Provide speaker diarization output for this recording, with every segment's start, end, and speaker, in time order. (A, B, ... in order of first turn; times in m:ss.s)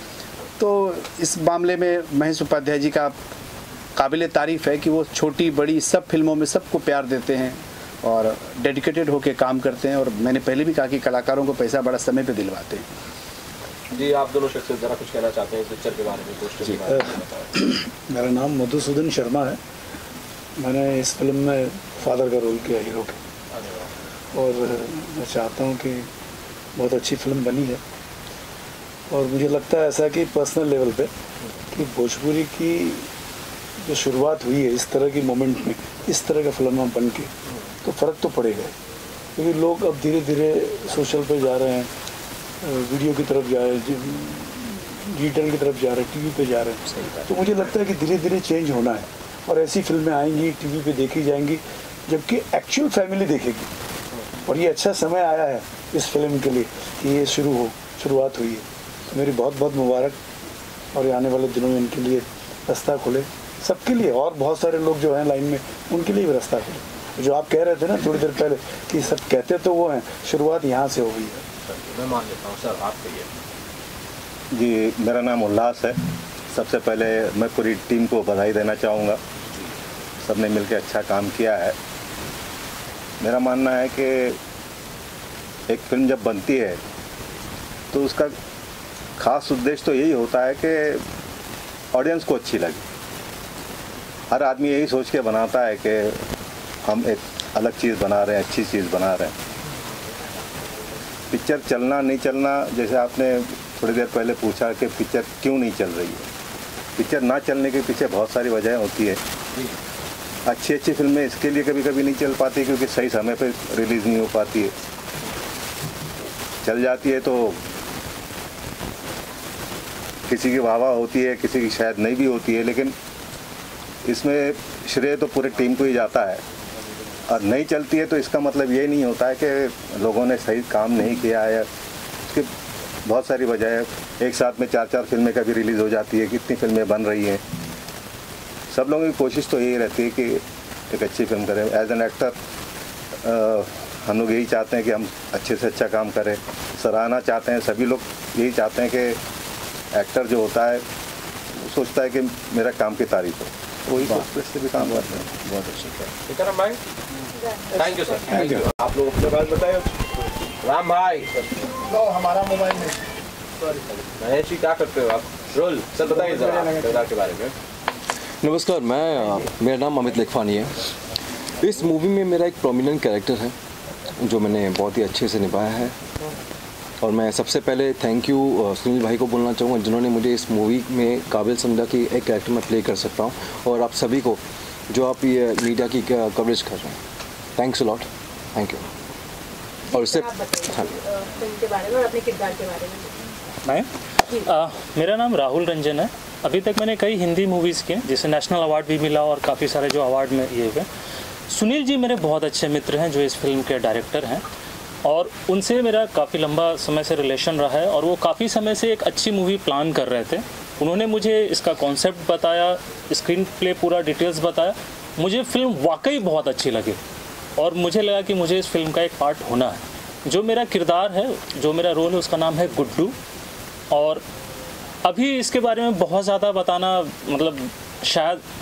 0:00.6-0:03.2 A
0:04.0-0:12.8 A
0:13.9-0:17.5 B
0:16.6-0:19.6 C
0:20.6-0:23.2 C
0:23.5-0:23.9 B
0:24.3-0:26.1 C
0:26.8-0:27.8 C
0:29.1-0:31.1 C
0:31.7-0:33.0 C
0:33.8-0:37.3 C
0:37.8-0:38.7 C
0:39.4-0:41.9 C
0:42.6-0:53.7 C
0:54.4-1:00.2 C
1:00.9-1:11.4 C
1:11.6-1:13.3 B
1:14.5-1:19.2 D
1:20.2-1:21.7 D
1:23.2-1:24.4 D
1:25.7-1:26.8 D
1:27.9-1:28.3 D
1:29.2-1:31.0 D
1:31.9-1:32.8 D
1:34.3-1:36.2 D
1:36.8-1:39.3 D
1:41.3-1:46.2 D
1:47.0-1:49.2 D
1:50.4-1:54.7 D
1:56.6-1:57.6 D
2:00.3-2:02.9 D
2:04.0-2:06.4 D
2:07.3-2:11.7 D
2:13.0-2:17.4 D
2:18.7-2:22.3 D
2:23.2-2:29.2 D
2:29.9-2:30.8 D
2:31.6-2:35.1 D
2:33.9-2:36.1 A
2:36.3-2:36.8 B
2:37.4-2:38.3 E
2:37.7-2:40.1 B
2:40.6-2:41.9 B
2:42.0-2:42.9 A
2:43.6-2:47.5 B
2:48.4-2:50.7 F
2:51.6-2:53.5 F
2:54.2-2:55.9 F
2:57.0-3:07.0 F
3:07.6-3:08.8 F
3:09.9-3:13.3 E
3:09.9-3:10.8 F
3:14.4-3:20.9 G
3:21.5-3:24.4 G
3:25.0-3:37.0 G
3:37.6-3:43.1 G
3:43.9-3:44.2 G
3:45.0-3:48.4 G